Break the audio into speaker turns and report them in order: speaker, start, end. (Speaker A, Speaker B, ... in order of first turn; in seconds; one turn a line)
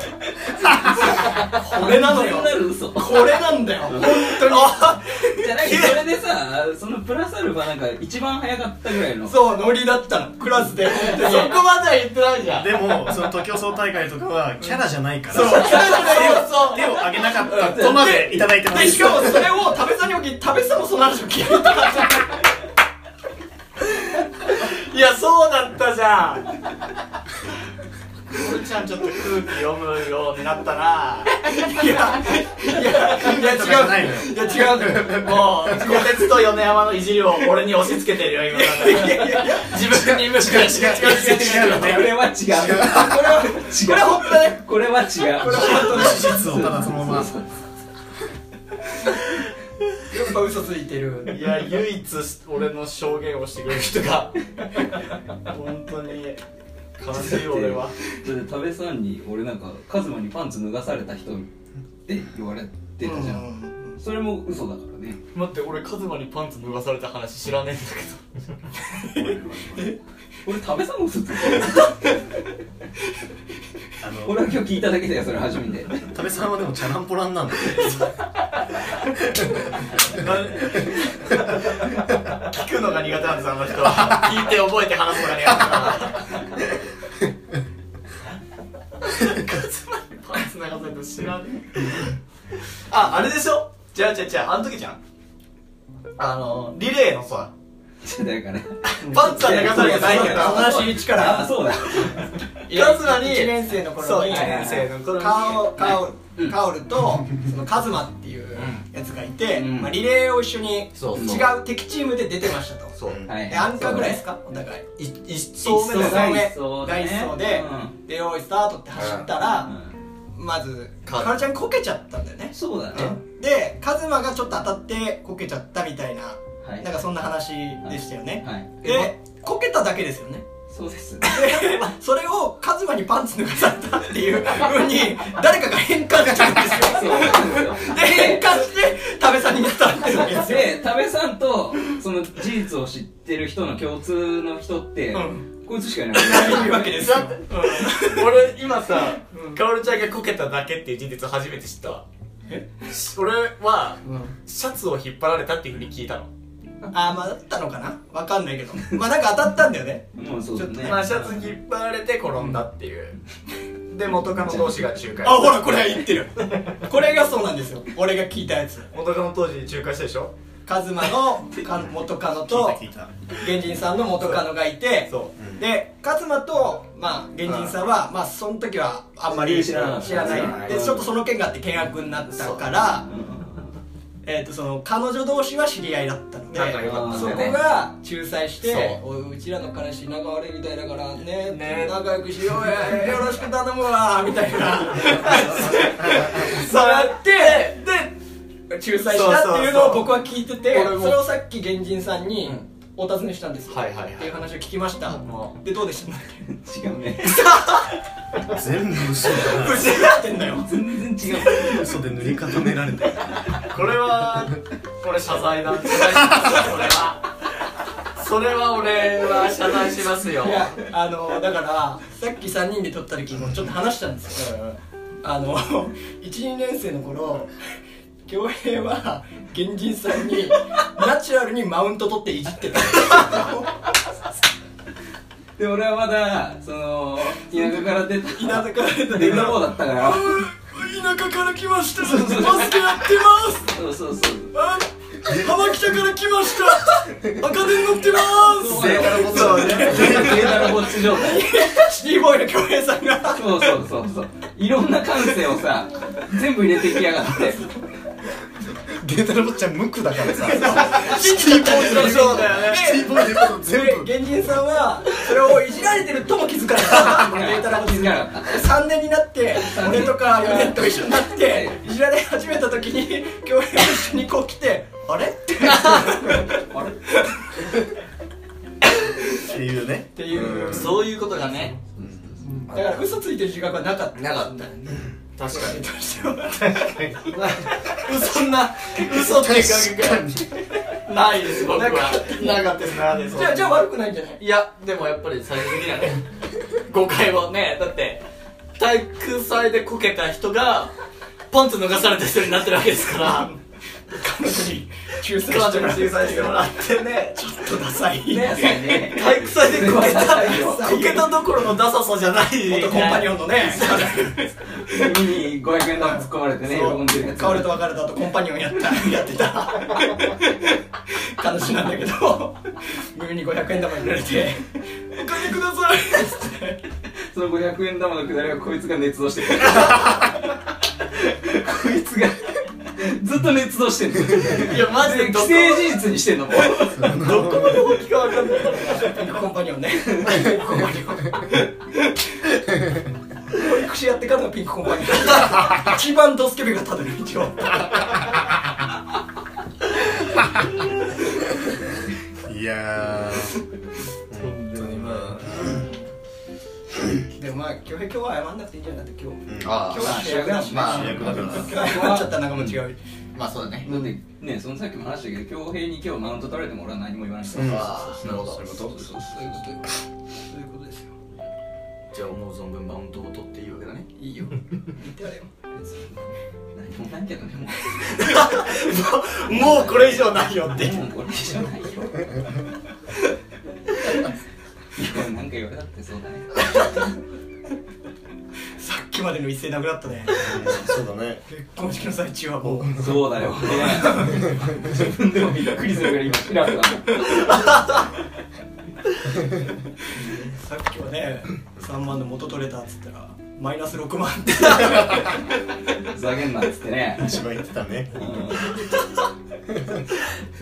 Speaker A: 0.6-3.6
Speaker B: 1.5-5.0
Speaker C: 4.0-6.0
Speaker A: 5.3-9.4
Speaker B: 9.2-11.6
Speaker C: 10.9-13.1
Speaker D: 12.5-19.6
Speaker C: 15.3-17.0
Speaker B: 15.3-16.6
Speaker A: 17.6-18.1
Speaker B: 17.7-22.3
Speaker C: 24.5-26.5
Speaker C: 28.3-31.5
Speaker B: 31.5-35.2
Speaker D: 33.0-36.0
Speaker C: 33.2-42.1
Speaker B: 38.5-39.8
Speaker D: 39.8-43.4
Speaker A: 40.9-47.4
Speaker B: 42.8-44.6
Speaker B: 45.3-46.6
Speaker D: 45.4-47.3
Speaker B: 50.1-51.4
Speaker C: 51.3-54.4
Speaker C: 55.5-56.4
Speaker C: 57.0-57.9
Speaker A: 57.1-61.5
Speaker A: 62.0-65.2
Speaker B: 63.0-64.0
Speaker C: 65.3-68.2
Speaker D: 69.0-70.0
Speaker A: 70.4-72.1
Speaker D: 74.0-74.5
Speaker A: 74.2-76.1
Speaker D: 76.1-78.1
Speaker D: 79.3-79.6
Speaker C: 80.0-86.4
Speaker C: 89.0-92.2
Speaker C: 92.9-95.0
Speaker C: 96.2-97.5
Speaker A: 98.0-102.5
Speaker B: 99.0-114.8
Speaker C: 99.1-100.9
Speaker C: 102.7-106.0
Speaker A: 104.3-104.9
Speaker E: 108.5-108.8
Speaker E: 109.5-110.0
Speaker E: 110.9-111.5
Speaker A: 111.1-111.5
Speaker E: 113.0-113.3
Speaker A: 113.3-114.2
Speaker C: 115.0-116.4
Speaker B: 115.6-119.7
Speaker A: 115.8-117.9
Speaker E: 119.0-119.3
Speaker A: 119.7-119.9
Speaker B: 120.3-130.4
Speaker E: 121.0-121.4
Speaker A: 122.5-123.2
Speaker A: 126.6-126.9
Speaker A: 127.8-129.1
Speaker A: 130.7-131.6
Speaker B: 131.2-140.7
Speaker A: 136.8-138.7
Speaker A: 140.0-147.2
Speaker B: 145.1-145.5
Speaker B: 146.1-148.3
Speaker C: 147.1-152.0
Speaker B: 149.3-149.6
Speaker C: 152.9-156.3
Speaker B: 154.0-154.3
Speaker B: 156.9-161.1
Speaker A: 160.2-161.3
Speaker C: 160.8-163.2
Speaker C: 163.9-165.7
Speaker B: 165.2-168.9
Speaker C: 168.9-170.3
Speaker B: 170.7-172.8
Speaker D: 171.7-173.1
Speaker B: 173.4-183.1
Speaker C: 174.2-174.5
Speaker C: 175.1-175.3
Speaker D: 175.4-175.7
Speaker C: 177.4-177.8
Speaker A: 179.3-181.1
Speaker C: 180.0-180.7
Speaker E: 180.2-180.9
Speaker A: 183.1-183.7
Speaker B: 184.2-198.1
Speaker C: 186.5-187.6
Speaker E: 186.8-187.3
Speaker A: 186.8-187.6
Speaker C: 188.6-189.0
Speaker C: 191.4-192.0
Speaker C: 195.0-198.0
Speaker B: 198.7-206.5
Speaker C: 199.1-201.2
Speaker E: 203.7-204.3
Speaker C: 205.1-205.6
Speaker A: 206.6-207.4
Speaker C: 207.4-207.8
Speaker D: 208.5-209.9
Speaker B: 209.4-210.8
Speaker C: 209.6-210.0
Speaker A: 210.7-211.9
Speaker D: 211.4-214.5
Speaker C: 213.7-217.3
Speaker C: 218.2-220.7
Speaker B: 220.4-224.5
Speaker C: 224.3-224.8
Speaker B: 225.2-227.5
Speaker B: 228.3-233.7
Speaker A: 235.6-240.4
Speaker B: 238.3-243.7
Speaker A: 242.0-243.0
Speaker A: 243.7-244.5
Speaker B: 244.5-253.7
Speaker A: 248.4-251.6
Speaker D: 248.6-250.8
Speaker C: 249.0-250.4
Speaker A: 253.3-257.6
Speaker B: 257.4-257.7
Speaker D: 258.9-264.4
Speaker B: 260.4-276.6
Speaker C: 261.0-263.0
Speaker A: 266.9-268.7
Speaker A: 269.5-271.8
Speaker A: 276.7-276.9
Speaker D: 279.4-281.1
Speaker B: 280.1-281.8
Speaker E: 280.7-283.0
Speaker D: 282.0-282.4
Speaker B: 282.4-287.1
Speaker E: 284.1-284.5
Speaker C: 285.4-285.8
Speaker D: 286.9-287.6
Speaker C: 287.9-290.3
Speaker D: 289.1-290.6
Speaker C: 291.0-293.9
Speaker B: 291.7-292.8
Speaker B: 293.3-294.4
Speaker C: 294.4-296.2
Speaker C: 296.8-298.2
Speaker C: 298.8-300.9
Speaker C: 301.5-303.5
Speaker B: 304.1-306.6
Speaker C: 305.3-307.4
Speaker B: 307.3-309.1
Speaker A: 308.3-310.9
Speaker C: 308.9-314.5
Speaker B: 310.3-311.4
Speaker B: 312.6-314.5
Speaker A: 314.9-317.8
Speaker B: 316.0-320.5
Speaker B: 321.4-326.8
Speaker A: 327.3-330.5
Speaker A: 331.1-337.5
Speaker C: 334.6-336.0
Speaker D: 336.8-337.9
Speaker C: 337.1-339.2
Speaker B: 338.9-341.5
Speaker B: 343.5-347.9
Speaker D: 352.4-353.6
Speaker D: 354.3-355.8
Speaker E: 354.4-355.4
Speaker B: 357.4-363.0
Speaker D: 359.5-359.9
Speaker E: 359.6-361.1
Speaker A: 359.9-362.2
Speaker D: 360.8-361.9
Speaker E: 363.3-363.9
Speaker B: 363.8-364.1
Speaker A: 363.8-368.1
Speaker D: 367.5-369.1
Speaker B: 367.6-368.1
Speaker E: 367.6-368.8
Speaker B: 368.9-371.1
Speaker E: 372.1-374.1
Speaker B: 374.2-375.5
Speaker A: 375.7-378.5
Speaker C: 378.1-381.0
Speaker A: 379.5-382.6
Speaker A: 384.9-386.9
Speaker B: 388.8-390.4
Speaker D: 390.4-391.4
Speaker B: 391.5-393.0
Speaker D: 392.6-393.1
Speaker A: 392.9-397.7
Speaker B: 393.7-394.4
Speaker D: 394.6-394.9
Speaker B: 400.3-405.4
Speaker A: 406.0-407.4
Speaker D: 407.1-408.8
Speaker A: 408.1-408.7
Speaker D: 409.7-410.0